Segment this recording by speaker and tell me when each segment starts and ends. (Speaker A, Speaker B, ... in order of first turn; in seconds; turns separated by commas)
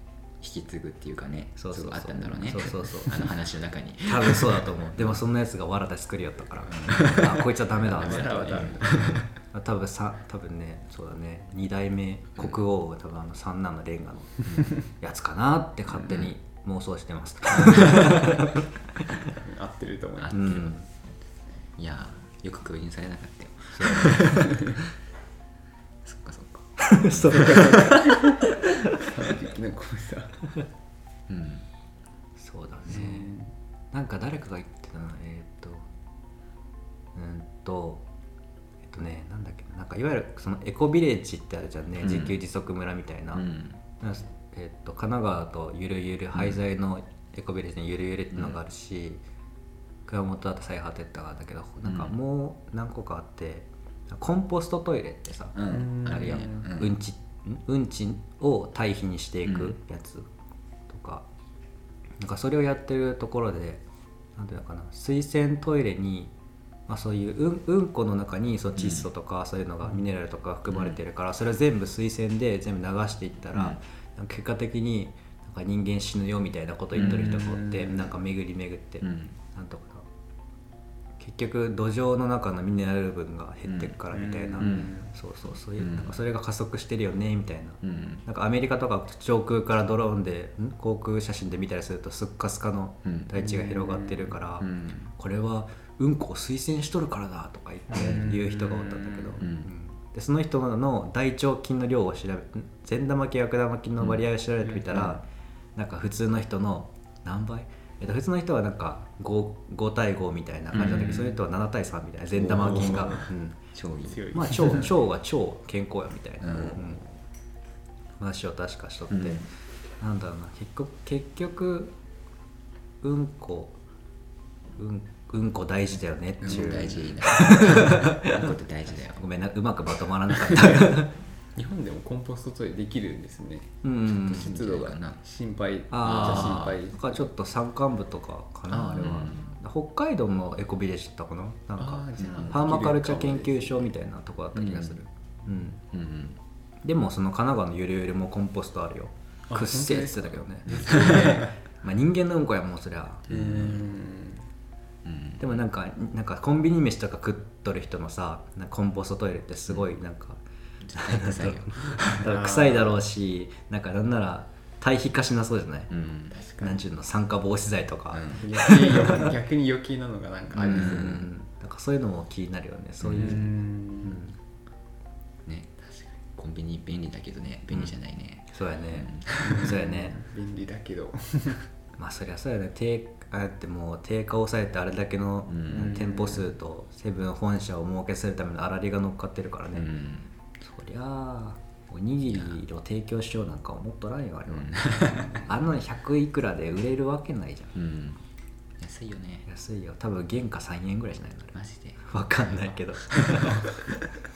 Speaker A: 0.4-5.2, Speaker B: 1.6-3.3, Speaker B: 4.0-19.3, Speaker A: 6.7-9.2, Speaker C: 7.0-9.3, Speaker A: 14.4-14.7, Speaker C: 19.2-20.4, Speaker A: 20.2-20.7, Speaker B: 20.3-20.8, Speaker A: 21.8-24.8, Speaker B: 23.7-24.5, Speaker C: 24.1-24.8, Speaker A: 26.0-27.9, Speaker B: 26.8-29.0, Speaker C: 27.3-30.4, Speaker A: 31.3-31.6, Speaker B: 32.4-33.3, Speaker C: 32.9-33.5, Speaker B: 33.9-35.9, Speaker B: 37.1-38.0, Speaker B: 38.8-43.5, Speaker A: 42.0-42.4, Speaker A: 43.3-43.8, Speaker B: 44.0-49.2, Speaker B: 50.0-60.3, Speaker A: 51.8-52.1, Speaker A: 55.5-56.9, Speaker C: 55.7-56.7, Speaker A: 59.4-59.8, Speaker B: 60.9-61.2, Speaker B: 62.2-63.8, Speaker B: 64.3-66.3, Speaker B: 66.9-80.1, Speaker A: 68.8-69.1, Speaker A: 70.7-71.0, Speaker A: 76.9-77.5, Speaker C: 77.2-78.0, Speaker A: 79.0-79.3, Speaker B: 81.2-105.2, Speaker A: 83.7-84.0, Speaker C: 84.1-85.1, Speaker A: 84.6-84.9, Speaker A: 85.8-86.1, Speaker A: 87.8-88.2, Speaker A: 93.0-93.3, Speaker C: 93.3-94.4, Speaker A: 94.6-95.1, Speaker C: 97.9-99.4, Speaker A: 99.4-99.7, Speaker A: 104.9-105.2, Speaker B: 105.7-113.6, Speaker A: 110.7-111.3, Speaker A: 112.3-114.8, Speaker C: 114.1-114.9, Speaker B: 114.3-117.0, Speaker A: 116.4-116.9, Speaker B: 118.2-119.4, Speaker A: 119.1-119.5, Speaker B: 120.0-121.9, Speaker B: 123.0-123.8, Speaker B: 124.8-128.5, Speaker A: 126.4-129.3, Speaker B: 129.1-131.1, Speaker C: 130.4-130.9, Speaker C: 131.6-137.3, Speaker B: 133.8-134.5, Speaker A: 134.3-135.2, Speaker B: 135.9-145.8, Speaker A: 136.0-136.8, Speaker A: 138.7-139.5, Speaker C: 141.8-143.9, Speaker A: 142.2-142.5, Speaker A: 144.5-145.0, Speaker A: 145.9-146.4, Speaker B: 146.8-153.5, Speaker C: 149.5-151.6, Speaker A: 150.7-151.0, Speaker A: 153.3-153.9, Speaker C: 153.5-154.4, Speaker A: 155.0-155.5, Speaker B: 155.4-160.4, Speaker A: 160.8-162.3, Speaker B: 160.9-165.9, Speaker C: 162.2-162.9, Speaker A: 165.9-166.4, Speaker C: 166.3-166.8, Speaker B: 166.6-169.3, Speaker A: 168.1-168.5, Speaker C: 168.4-171.2, Speaker B: 170.6-173.5, Speaker A: 170.6-171.2, Speaker A: 173.0-173.4, Speaker C: 173.2-174.2, Speaker B: 174.0-174.3, Speaker A: 175.5-179.7, Speaker B: 178.5-180.2, Speaker C: 179.4-181.7, Speaker B: 182.0-189.9, Speaker A: 185.5-186.1, Speaker C: 185.7-186.5, Speaker A: 189.7-190.3, Speaker B: 190.6-197.7, Speaker A: 192.3-192.6, Speaker A: 194.5-195.5, Speaker C: 195.1-195.5, Speaker A: 197.7-198.2, Speaker A: 198.8-199.5, Speaker B: 199.5-204.0, Speaker A: 201.5-202.0, Speaker C: 203.2-203.8